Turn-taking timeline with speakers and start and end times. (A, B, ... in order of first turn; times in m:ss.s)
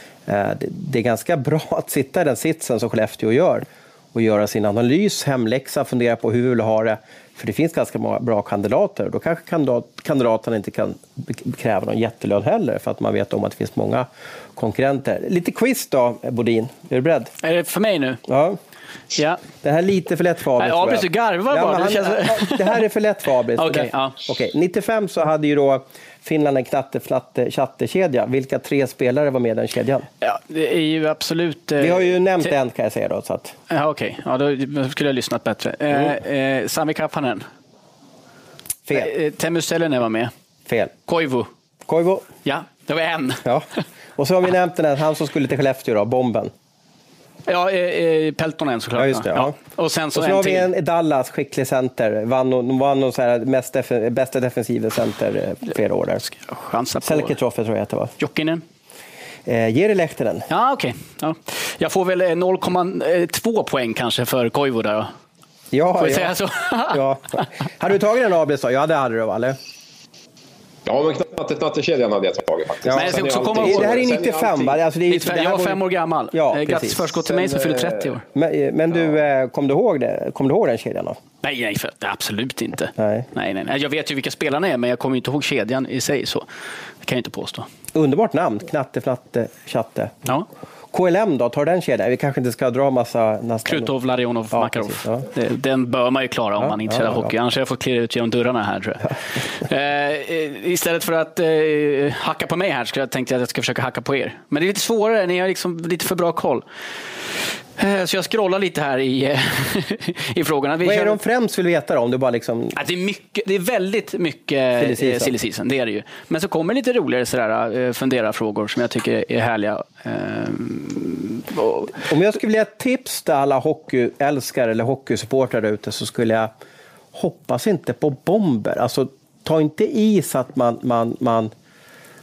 0:00.3-0:17.3 A
0:17.4-0:18.2 B
0:18.3-0:18.6 A
0:19.1-0:19.4 B
0:19.6-0:30.1 A
0:20.6-0:22.7 B
0:23.6-0:24.2 B
0:30.2-0:32.5 B
0:31.8-0:33.6 A
0:33.7-0:37.5 B
0:38.8-0:39.1 A
0:38.9-0:40.3 B
0:40.7-0:40.9 A
0:41.1-0:41.5 B
0:41.8-0:42.3 A
0:42.4-0:43.4 B
0:43.4-0:46.5 A
0:47.4-0:50.7 B
0:49.0-0:49.5 A
0:50.1-0:56.2 A
0:56.3-0:57.3 B
0:57.0-0:58.1 A
0:58.2-0:58.6 B
0:59.4-1:00.5 A
1:00.5-1:05.1 B
1:05.7-1:06.3 A
1:06.0-1:07.0 B
1:06.9-1:09.6 A
1:10.8-1:14.8 C
1:12.8-1:17.0 A
1:12.9-1:13.9 B
1:15.1-1:18.2 B
1:17.3-1:18.0 C
1:18.3-1:21.2 A
1:21.4-1:26.4 B
1:23.0-1:23.3 A
1:27.0-1:27.7 B
1:27.9-1:30.2 A
1:30.9-1:33.9 A
1:33.6-1:46.6 B
1:34.5-1:35.2 A
1:36.6-1:37.3 A
1:47.8-1:51.2 B
1:50.8-1:52.8 A
1:52.7-2:01.9 B
1:54.8-1:55.3 A
2:02.1-2:06.5 A
2:07.1-2:11.5 A